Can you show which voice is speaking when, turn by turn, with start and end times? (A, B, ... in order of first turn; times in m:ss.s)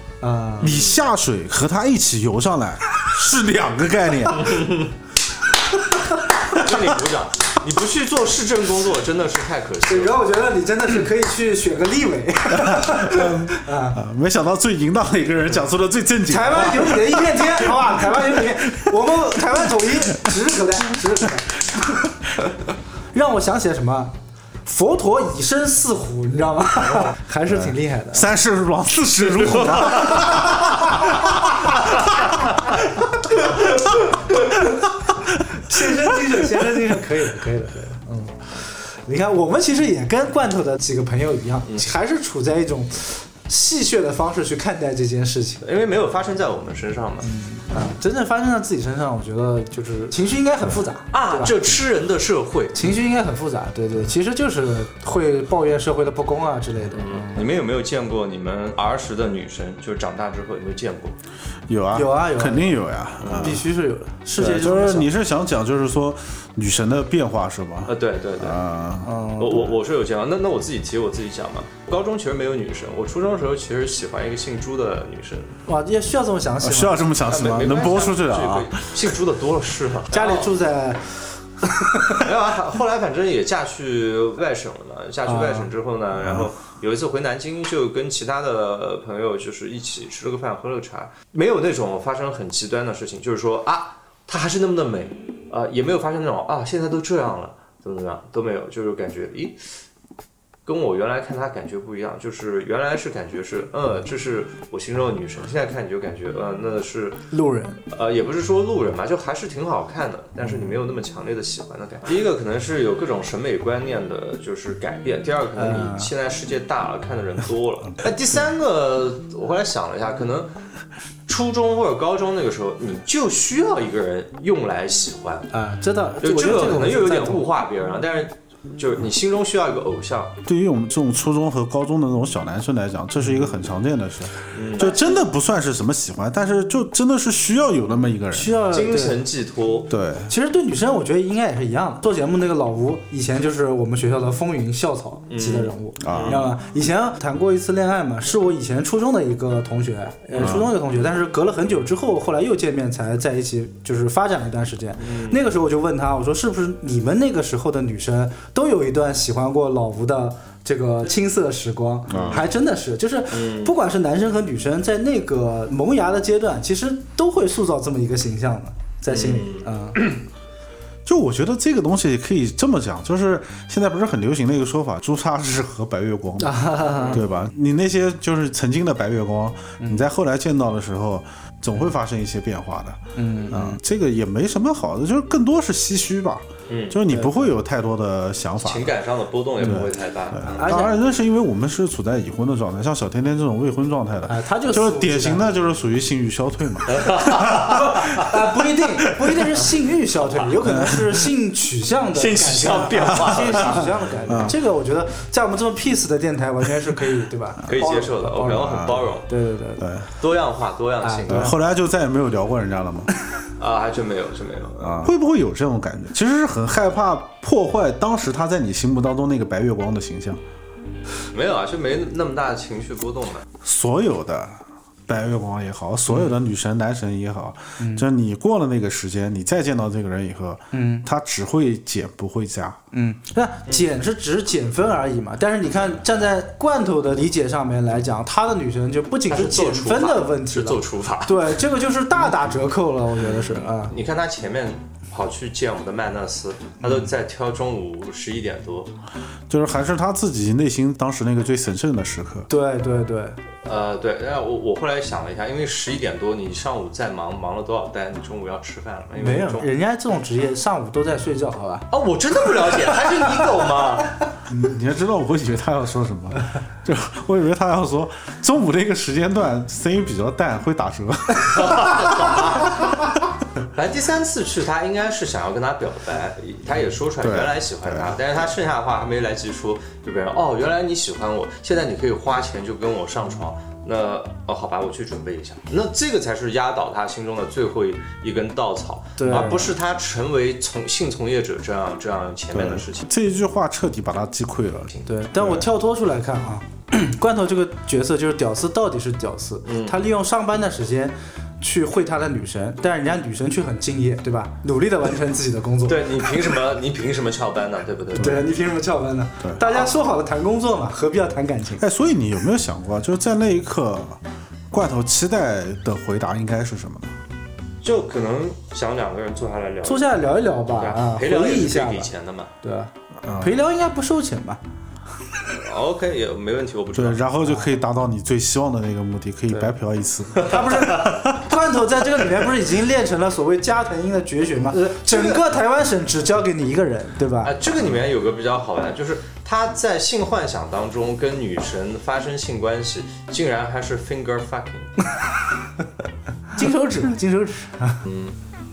0:00.2-0:00.7 A
0:00.6-0:01.0 B
0:00.6-0:04.7 C
0:06.5-0:10.2 B
0:09.8-0:14.0 A
0:12.6-0:18.5 C
0:16.3-0:21.7 A
0:23.1-0:24.1 A
0:24.6-0:28.3 A
0:27.5-0:31.7 C
0:29.7-0:30.2 B
0:35.5-0:45.6 A
0:45.6-0:47.3 B
0:47.2-0:51.6 A
0:51.1-0:52.8 B
0:52.7-0:57.4 A
0:56.9-1:01.1 B
1:01.7-1:03.6 C
1:01.9-1:02.8 A
1:03.2-1:03.6 B
1:03.4-1:05.1 A
1:04.4-1:09.1 C
1:07.9-1:08.6 B
1:09.0-1:09.7 A
1:09.4-1:15.5 B
1:15.7-1:17.0 A
1:16.6-1:18.9 C
1:17.2-1:20.5 B
1:20.1-1:22.2 A
1:22.1-1:39.6 B
1:25.3-1:25.7 A
1:26.1-1:26.5 C
1:40.6-1:47.2 B
1:47.3-1:47.8 A
1:47.9-2:00.5 B
1:55.6-1:56.1 A
2:01.3-2:05.5 B
2:05.5-2:07.4 A
2:06.2-2:10.4 B
2:10.4-2:18.6 C
2:14.5-2:15.0 B
2:14.8-2:15.1 A
2:18.3-2:19.2 A
2:18.6-2:19.9 B
2:19.9-2:20.3 C
2:20.3-2:50.0 A
2:25.3-2:26.4 B
2:26.0-2:26.4 C
2:30.4-2:30.7 C
2:35.0-2:35.4 B
2:42.1-2:42.4 C
2:42.1-2:42.4 B
2:43.3-2:43.7 B
2:49.1-2:50.1 B
2:51.1-3:08.9 C
2:56.4-2:57.2 A
2:57.0-2:57.2 B
3:03.1-3:03.8 A
3:06.7-3:07.0 B
3:07.1-3:07.4 A
3:08.6-3:10.9 B
3:09.6-3:18.2 C
3:10.6-3:11.0 A
3:14.3-3:15.4 A
3:16.9-3:18.3 B
3:17.9-3:29.8 A
3:19.0-3:19.4 B
3:20.7-3:21.0 C
3:22.1-3:23.9 B
3:23.6-3:24.6 C
3:27.7-3:29.3 B
3:28.5-3:29.1 C
3:29.8-3:30.1 C
3:30.2-3:31.5 B
3:31.0-3:31.5 A
3:31.3-3:33.1 C
3:33.6-3:35.0 B
3:34.9-3:40.4 C
3:41.3-3:43.5 B
3:43.6-3:52.8 C
3:47.8-3:48.1 A
3:50.7-3:51.1 A
3:52.9-4:03.9 A
3:59.3-4:01.6 B
4:03.2-4:08.9 B
4:06.8-4:07.1 A
4:09.5-4:12.5 C
4:12.5-4:13.4 A
4:13.6-4:19.7 B
4:19.2-4:21.9 A
4:21.9-4:24.1 B
4:24.5-4:32.8 C
4:31.5-4:32.9 B
4:33.7-4:53.1 B
4:37.2-4:38.2 C
4:49.2-4:49.7 A
4:52.5-4:55.7 C
4:55.1-5:06.2 A
4:59.6-5:00.0 B
5:05.9-5:08.4 B
5:08.2-5:11.8 A
5:11.8-5:14.2 C
5:14.7-5:17.1 C
5:17.8-5:22.5 B
5:19.8-5:22.1 A
5:22.6-5:24.6 A
5:23.2-5:23.5 C
5:25.4-5:27.2 B
5:26.9-5:31.4 C
5:30.4-5:37.5 A
5:35.0-5:35.4 B
5:37.4-5:45.0 B
5:46.6-5:48.0 A
5:48.0-5:48.4 B